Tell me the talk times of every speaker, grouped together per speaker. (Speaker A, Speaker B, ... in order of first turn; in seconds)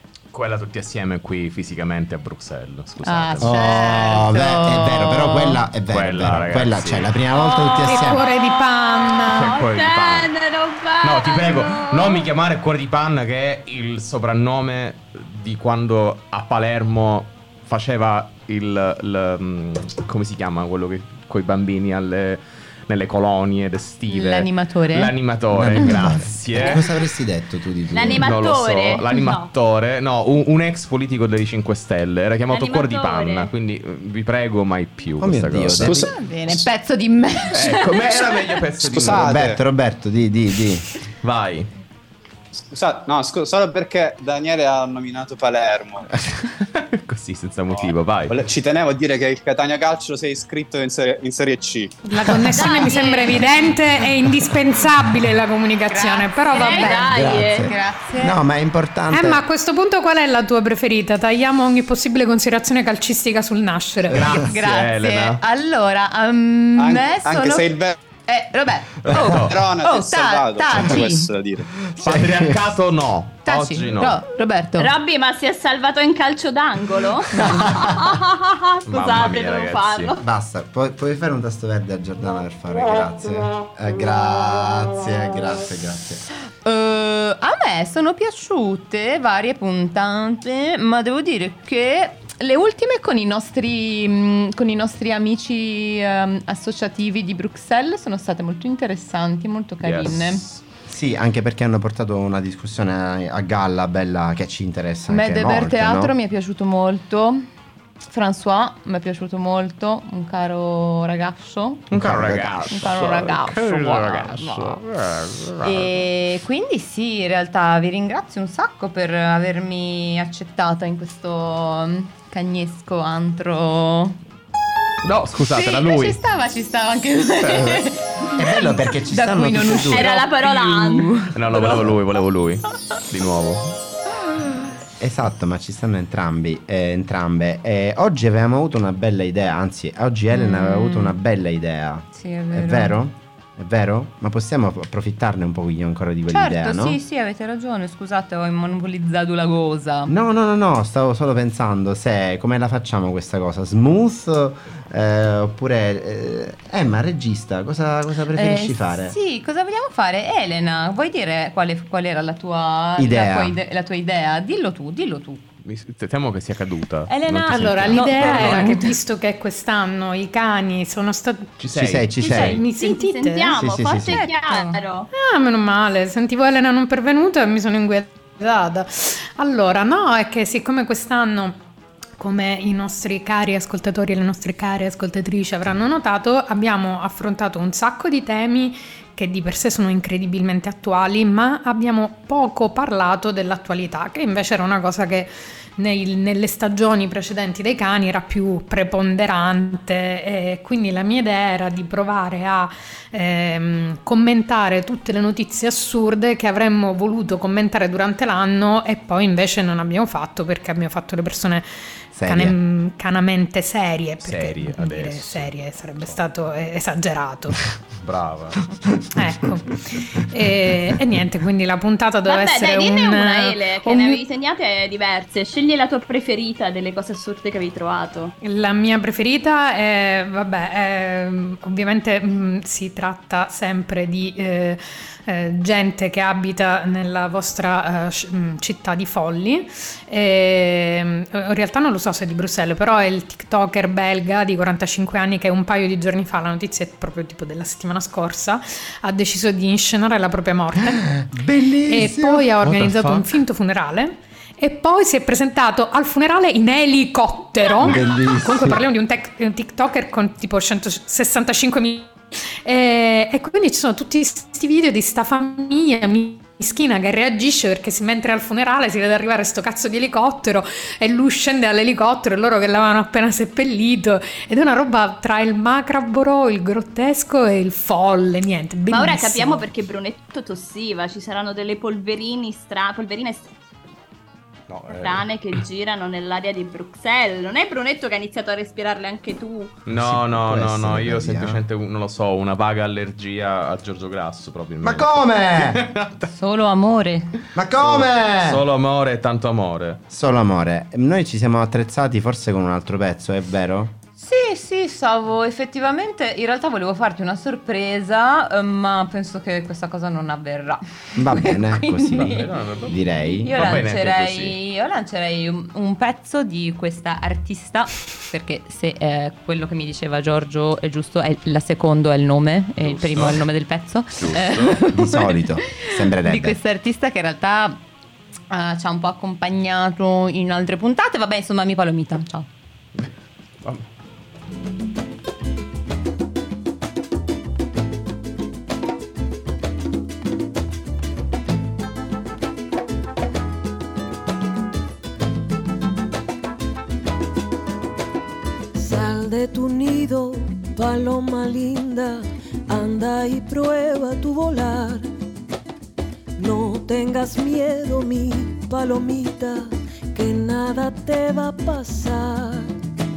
Speaker A: 0.3-3.6, 5.9-7.1, 9.3-10.3, 11.0-26.9, 28.0-36.0, 37.5-39.4, 41.2-41.7, 46.3-48.4, 64.1-65.4, 69.0-69.5, 72.0-74.2, 78.9-80.1, 99.8-100.6, 111.9-116.0, 125.0-126.2, 131.3-133.7, 165.6-168.8, 171.6-172.6, 214.2-215.5, 218.0-218.6, 252.6-253.2, 284.7-285.6, 289.9-296.3, 297.8-300.0, 312.1-313.0, 313.5-314.5, 322.8-323.4, 324.2-324.8
Speaker B: 3.0-5.6, 24.1-25.1, 35.9-38.3, 55.9-58.4, 64.3-67.7, 68.2-71.3, 73.4-74.9, 86.6-100.4, 105.1-107.4, 108.1-111.8, 112.7-114.8, 115.6-124.2, 125.5-131.3, 140.3-141.1, 142.1-143.0, 146.3-150.1, 158.3-165.4, 167.1-168.9, 173.9-174.8, 296.3-297.3, 304.2-312.5, 313.4-327.8, 328.5-332.5
Speaker C: 3.4-8.2, 25.5-28.3, 35.2-36.1, 39.0-40.9, 57.1-59.4, 71.9-72.6, 80.2-86.2, 100.9-106.1, 111.9-112.8, 127.4-130.1, 135.0-147.0, 150.1-159.2, 163.0-163.6, 171.7-172.6, 173.5-174.2, 212.1-212.6, 250.8-252.5, 257.8-258.8, 289.9-291.6, 294.8-295.9, 297.5-298.6, 300.1-303.9, 311.1-313.8, 324.9-326.6
Speaker D: 7.3-12.3, 27.9-29.5, 32.5-33.5, 52.5-53.4, 56.5-57.7, 74.8-80.2, 129.9-131.6, 172.6-175.1, 222.3-228.3, 278.9-283.4, 284.9-289.7
Speaker E: 7.8-9.6, 52.0-57.1, 59.1-64.3, 167.5-171.5, 172.2-173.6, 175.1-181.6, 182.2-217.6, 219.1-224.2, 228.4-251.2, 251.8-279.6
Speaker F: 38.9-39.6, 42.7-46.1, 47.7-51.9, 66.8-68.0, 69.2-71.7
Speaker G: 348.7-355.1, 356.4-362.8